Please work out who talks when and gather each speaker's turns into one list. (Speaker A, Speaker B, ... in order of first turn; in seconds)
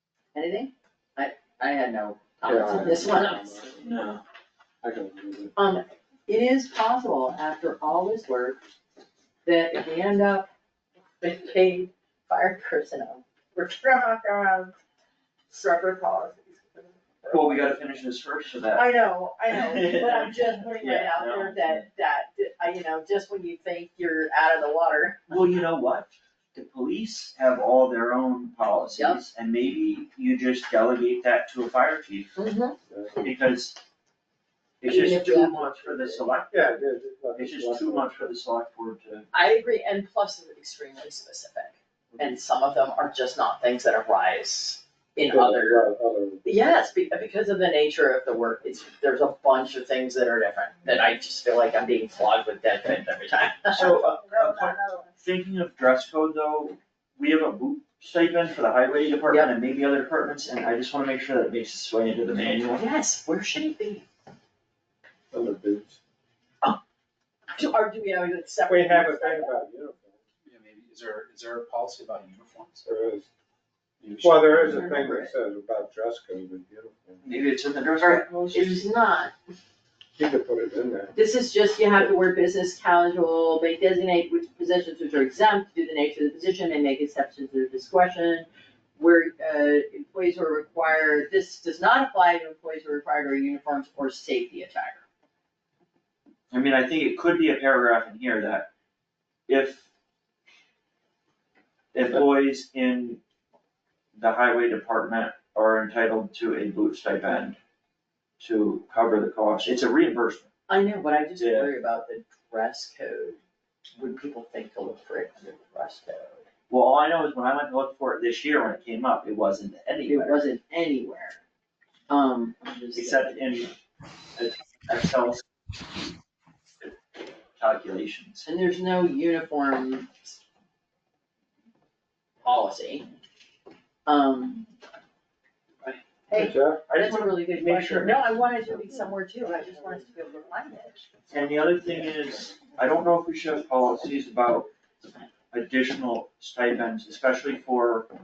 Speaker A: 0.3-3.8, 5.5-8.6, 9.4-10.5, 11.2-14.7, 15.5-18.0, 18.7-25.4, 28.9-29.2, 32.4-32.8, 34.9-35.9, 39.3-45.9, 46.4-55.1, 59.3-59.5, 62.6-64.0, 67.5-69.6, 74.6-75.3, 78.0-79.3, 81.1-95.0, 110.7-113.4, 114.0-116.5, 120.1-121.4, 122.1-123.4, 128.4-130.4, 132.4-133.1, 134.1-134.6, 135.8-141.1
Speaker B: 2.5-3.9, 4.8-5.5, 32.9-33.2, 36.5-38.1, 45.3-46.5, 65.3-66.0, 68.7-70.2, 72.8-73.3, 74.2-77.2, 80.2-81.1, 136.3-136.8
Speaker C: 3.8-4.2, 17.3-18.9, 19.5-21.9, 25.3-32.4, 33.2-33.8, 34.8-36.6, 37.4-39.3, 53.7-62.9, 77.2-78.8, 96.5-98.7, 99.5-99.9, 101.9-103.2, 104.1-107.6, 108.4-110.5, 111.4-111.7, 116.7-120.4, 122.9-123.7, 124.3-125.4, 127.5-128.4, 136.9-138.5, 141.3-144.7, 145.5-148.1
Speaker D: 70.4-72.8, 74.0-74.9